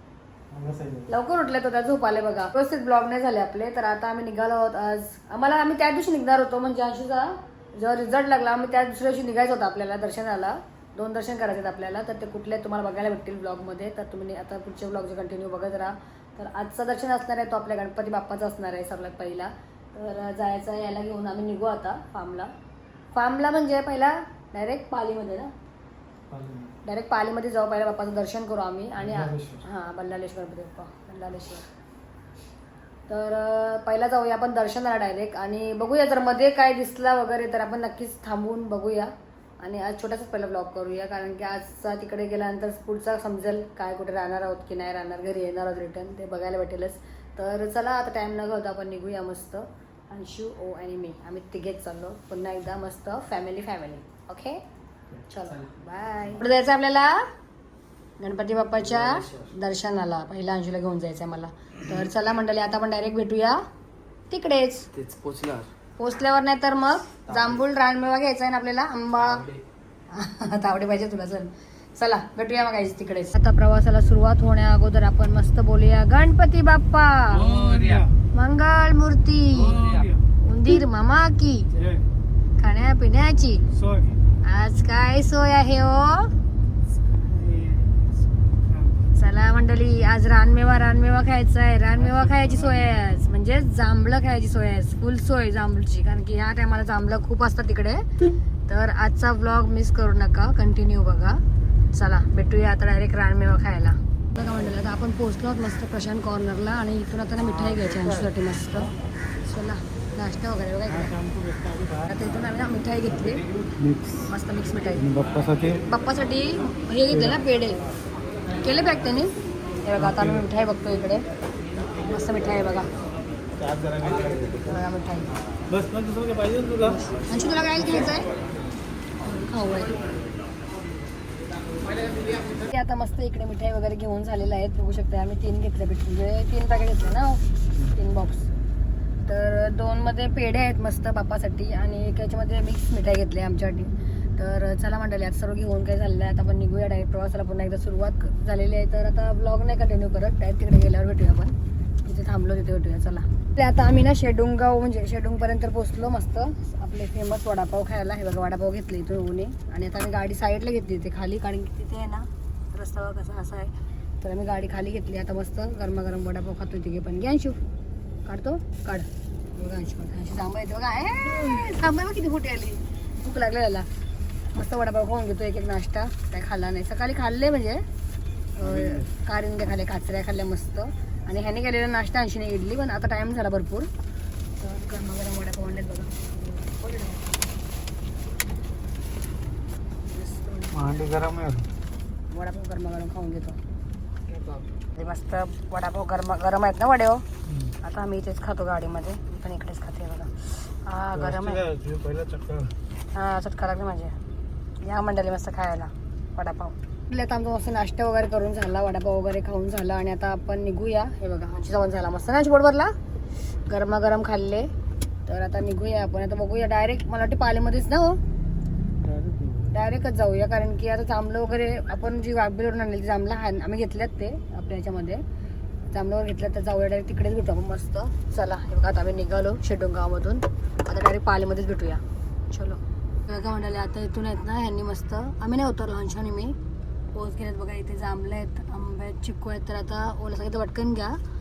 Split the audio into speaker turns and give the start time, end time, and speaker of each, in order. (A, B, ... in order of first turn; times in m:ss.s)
0:00.5-0:01.1 A
0:01.1-0:22.5 B
0:23.1-0:25.5 B
0:26.3-0:26.7 A
0:26.8-0:31.6 B
0:29.0-0:29.6 A
0:33.1-0:54.6 B
0:55.1-0:55.5 C
0:55.3-0:57.2 B
0:58.2-1:03.6 B
0:58.9-0:59.5 C
1:04.3-1:04.9 B
1:04.9-1:05.7 C
1:06.0-1:09.4 B
1:07.3-1:07.6 C
1:09.2-1:09.6 C
1:10.1-1:19.9 B
1:17.3-1:18.1 A
1:19.5-1:20.2 A
1:19.7-1:20.0 C
1:20.4-1:21.7 B
1:21.7-1:22.0 A
1:22.6-1:23.6 B
1:23.7-1:24.2 A
1:24.4-1:26.3 B
1:27.1-1:29.0 A
1:29.1-1:38.0 B
1:32.0-1:32.9 A
1:38.7-1:41.4 B
1:41.9-1:48.9 B
1:49.4-1:51.1 B
1:50.9-1:52.1 A
1:52.1-1:53.4 B
1:53.6-1:54.3 A
1:54.3-1:55.0 B
1:55.0-1:55.8 A
1:55.9-1:57.8 B
1:57.1-1:57.4 A
1:58.6-1:59.3 B
1:59.8-2:01.2 B
2:00.0-2:00.4 A
2:02.0-2:02.9 B
2:03.6-2:04.8 A
2:04.7-2:05.3 B
2:05.7-2:07.0 A
2:06.8-2:08.3 B
2:09.2-2:10.0 B
2:12.5-2:17.4 B
2:17.9-2:18.5 B
2:19.2-2:47.6 B
2:48.2-2:53.9 B
2:54.5-2:57.8 B
2:58.6-3:03.9 B
2:58.6-2:59.1 A
3:04.6-3:07.4 B
3:10.0-3:10.9 B
3:10.7-3:11.7 A
3:12.3-3:13.6 B
3:14.3-3:14.6 C
3:14.9-3:17.2 B
3:17.5-3:17.7 A
3:17.8-3:21.6 B
3:21.1-3:22.7 A
3:23.1-3:24.2 B
3:24.8-3:32.9 B
3:33.7-3:34.7 B
3:35.2-3:38.2 B
3:39.0-3:39.8 A
3:39.7-3:45.2 B
3:45.9-3:56.6 B
3:57.1-4:01.2 B